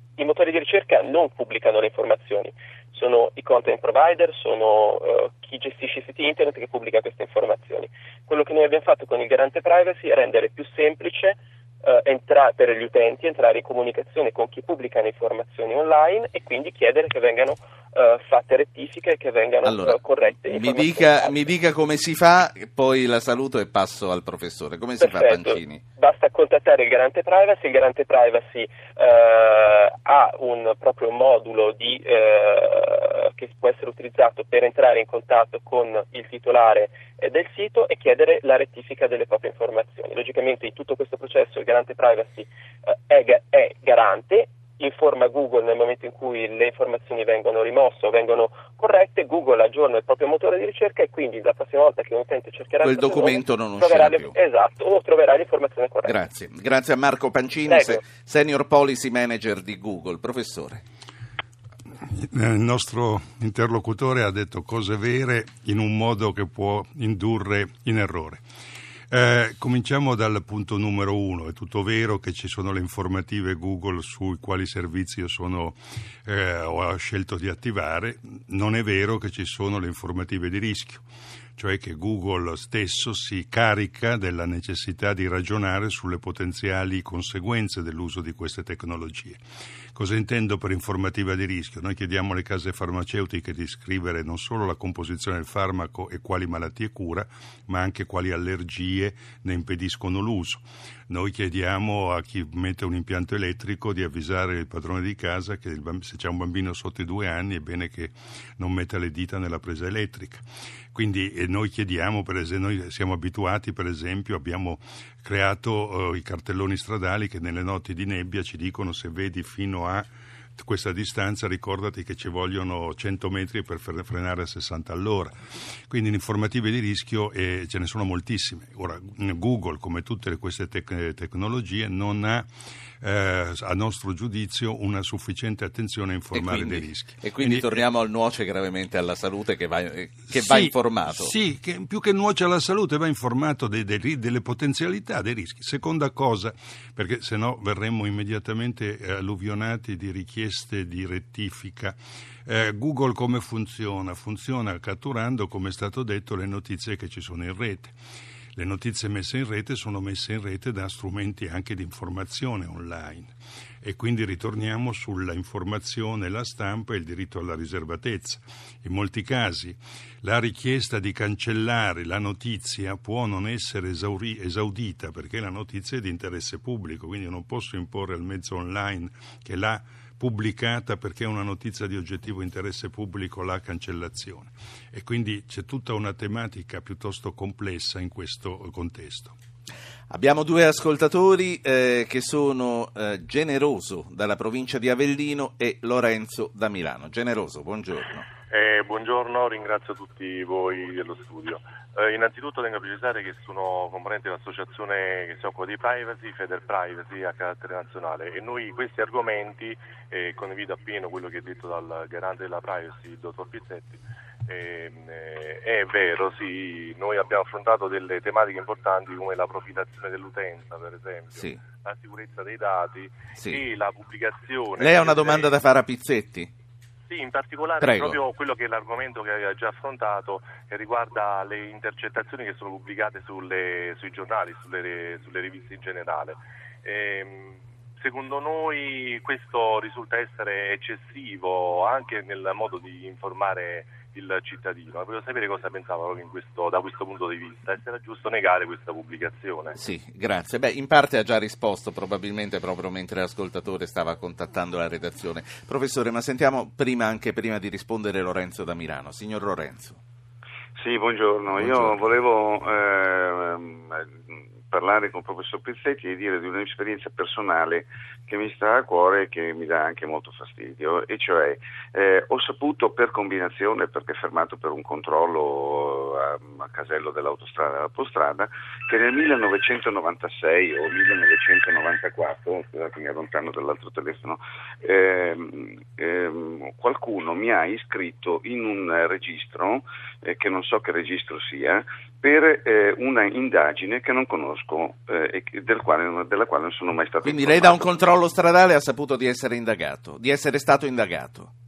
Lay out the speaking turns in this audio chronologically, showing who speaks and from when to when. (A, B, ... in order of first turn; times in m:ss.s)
0:00.2-0:21.4 A
0:19.6-0:25.8 B
0:25.0-0:56.2 A
0:52.8-0:54.3 B
0:56.0-1:00.8 B
0:57.7-0:58.0 A
1:02.0-1:08.4 C
1:09.1-1:21.0 C
1:21.6-1:29.4 C
1:29.9-2:05.3 C
2:05.9-2:12.5 C
2:13.0-2:17.8 C
2:16.4-2:21.4 B
2:20.3-2:37.9 C
2:38.6-3:09.4 C
3:10.1-3:18.3 B
3:18.5-3:45.5 D
3:43.4-3:43.6 B
3:44.8-3:46.5 B
3:47.1-4:09.8 D
3:47.8-3:48.2 B
4:09.8-4:20.0 B
4:20.8-4:57.9 E
4:21.5-4:22.0 B
4:57.2-5:01.5 B